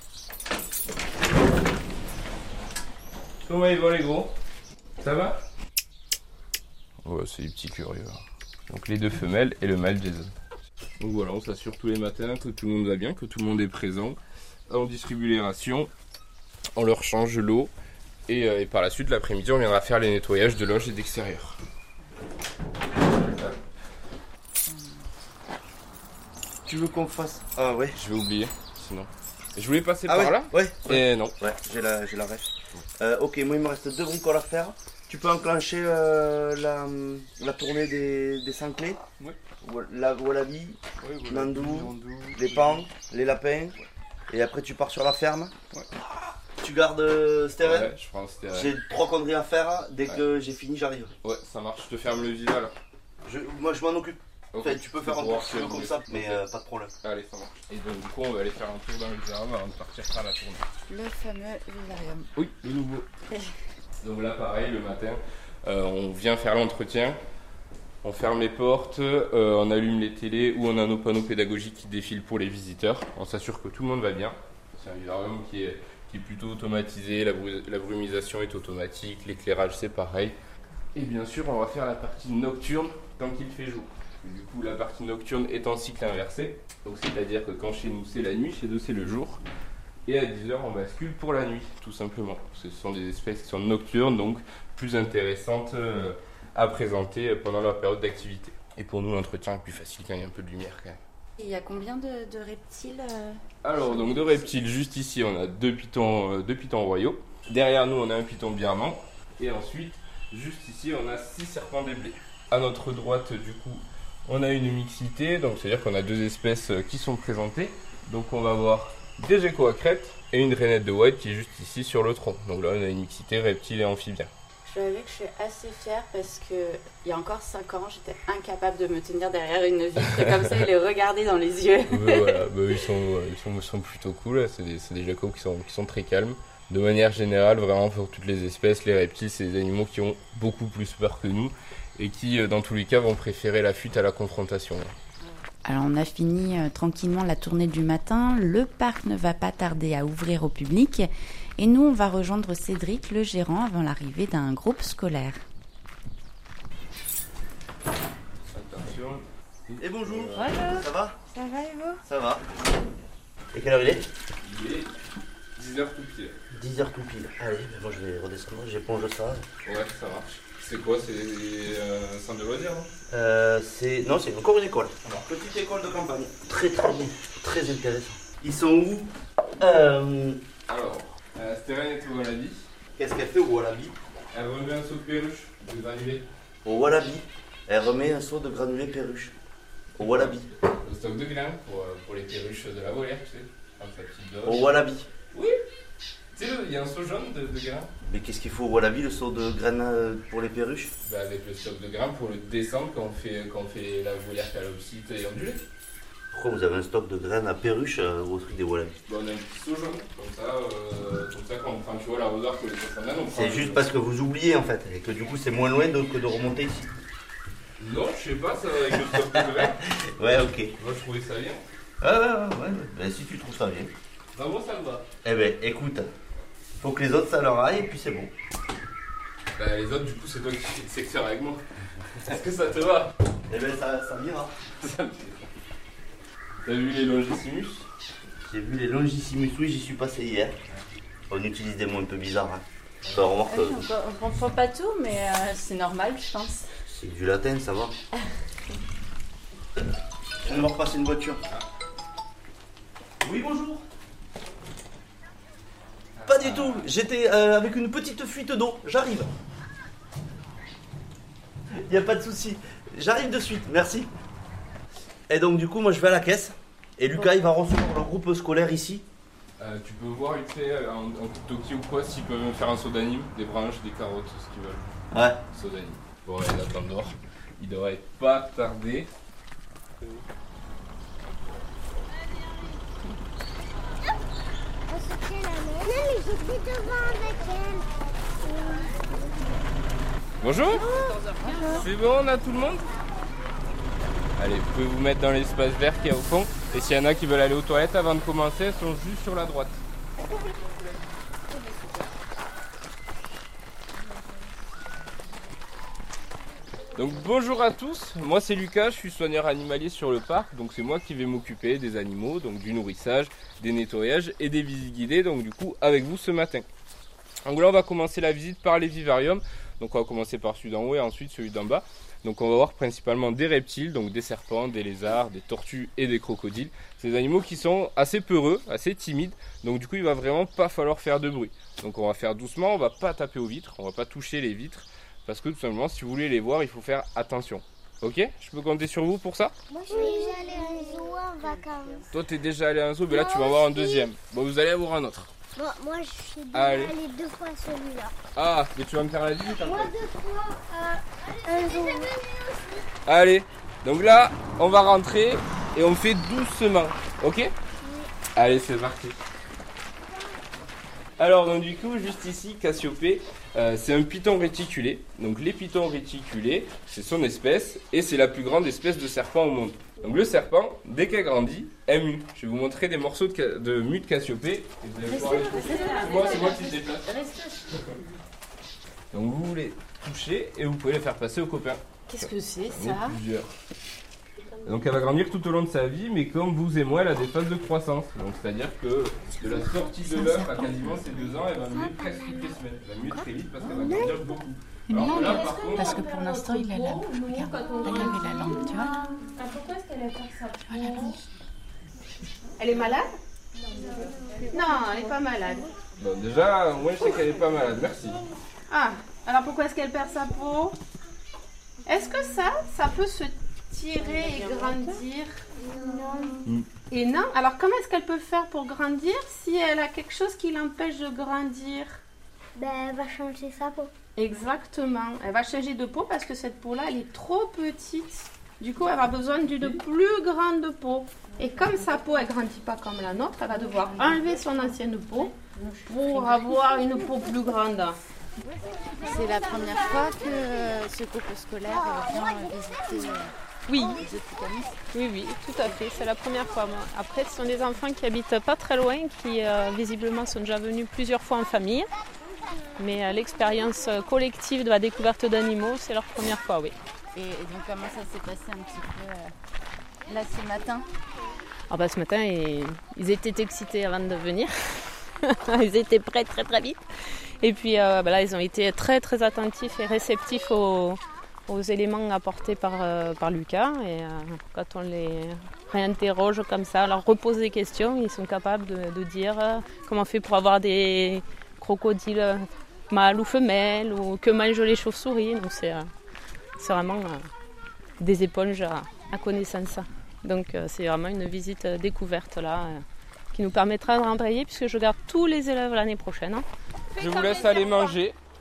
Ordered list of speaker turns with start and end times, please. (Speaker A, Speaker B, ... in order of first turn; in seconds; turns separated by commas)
Speaker A: 3.4-4.3, Speaker A: 5.0-5.4, Speaker A: 7.0-10.3, Speaker A: 11.0-14.2, Speaker A: 14.7-15.9, Speaker A: 16.7-17.7, Speaker A: 18.3-21.6, Speaker A: 23.0-23.6, Speaker B: 26.6-28.0, Speaker A: 27.9-31.3, Speaker B: 30.1-39.0, Speaker B: 39.6-43.7, Speaker A: 41.0-42.8, Speaker B: 44.3-45.5, Speaker B: 46.6-47.9, Speaker A: 47.6-48.7, Speaker B: 48.5-51.1, Speaker A: 51.2-52.7, Speaker B: 53.2-56.9, Speaker A: 54.5-56.4, Speaker A: 57.0-60.6, Speaker C: 60.9-62.3, Speaker A: 62.4-63.1, Speaker A: 64.0-67.2, Speaker A: 68.0-80.3, Speaker A: 80.9-89.4, Speaker A: 90.0-101.0, Speaker C: 101.4-104.4, Speaker A: 103.6-124.3, Speaker C: 124.7-132.4, Speaker A: 130.0-130.4, Speaker A: 131.9-144.9, Speaker C: 145.6-155.4, Speaker A: 158.4-160.5, Speaker B: 159.8-161.2, Speaker C: 160.3-162.0, Speaker B: 162.0-162.4, Speaker B: 163.5-164.1, Speaker A: 164.4-164.9, Speaker A: 165.6-166.4, Speaker B: 166.5-169.4, Speaker A: 169.6-172.9, Speaker B: 173.1-180.4, Speaker A: 180.7-182.7, Speaker B: 183.0-183.9, Speaker A: 184.3-186.2, Speaker B: 186.6-189.3, Speaker B: 189.9-190.4, Speaker A: 190.0-194.7, Speaker B: 194.4-195.1, Speaker A: 195.3-195.6, Speaker A: 196.3-197.9, Speaker B: 198.1-200.9, Speaker A: 201.0-205.6, Speaker B: 206.3-208.9, Speaker A: 209.1-213.8, Speaker B: 213.3-216.9, Speaker A: 217.8-219.8, Speaker B: 218.9-220.7, Speaker A: 220.8-221.6, Speaker B: 222.0-223.9, Speaker A: 224.3-225.1, Speaker B: 225.2-226.1, Speaker B: 226.8-228.3, Speaker A: 229.6-231.6, Speaker A: 232.2-233.1, Speaker B: 233.5-234.5, Speaker A: 234.8-235.5, Speaker A: 236.6-237.8, Speaker B: 238.4-240.6, Speaker B: 241.3-243.8, Speaker C: 243.5-246.7, Speaker B: 246.9-247.9, Speaker B: 250.4-251.4, Speaker B: 253.2-253.8, Speaker A: 256.1-256.9, Speaker B: 256.2-259.3, Speaker B: 261.7-264.1, Speaker B: 265.3-269.1, Speaker A: 269.6-274.9, Speaker B: 275.1-275.4, Speaker A: 275.5-279.1, Speaker D: 284.9-287.9, Speaker D: 288.4-289.6, Speaker A: 290.4-290.9, Speaker D: 290.8-291.2, Speaker C: 291.4-291.8, Speaker A: 291.6-292.8, Speaker A: 294.4-299.8, Speaker A: 306.9-316.6, Speaker A: 317.4-339.5, Speaker D: 339.7-342.1, Speaker A: 342.1-345.3, Speaker D: 343.1-344.1, Speaker D: 345.6-348.1, Speaker A: 346.5-346.9, Speaker A: 348.4-349.9, Speaker D: 349.4-352.8, Speaker A: 353.1-357.5, Speaker D: 357.8-358.1, Speaker A: 358.4-359.1, Speaker A: 361.2-377.1, Speaker C: 375.1-377.7, Speaker E: 375.1-376.6, Speaker A: 377.7-378.0, Speaker A: 379.1-383.5, Speaker E: 382.1-383.2, Speaker A: 384.6-396.0, Speaker C: 390.0-390.9, Speaker C: 394.9-399.0, Speaker E: 394.9-401.2, Speaker C: 400.7-401.2, Speaker E: 402.6-403.1, Speaker E: 404.5-405.7, Speaker A: 406.0-408.2, Speaker E: 408.7-410.8, Speaker E: 411.9-415.4, Speaker D: 415.6-416.4, Speaker E: 416.9-422.0, Speaker D: 422.6-423.9, Speaker E: 424.1-438.0, Speaker C: 439.0-443.3, Speaker E: 443.7-444.0, Speaker C: 443.9-444.8, Speaker E: 444.9-451.9, Speaker E: 452.8-456.8, Speaker C: 457.1-459.3, Speaker C: 460.1-460.9, Speaker E: 461.7-466.8, Speaker E: 467.4-485.9, Speaker E: 486.6-487.3, Speaker E: 488.0-498.0, Speaker A: 496.9-498.1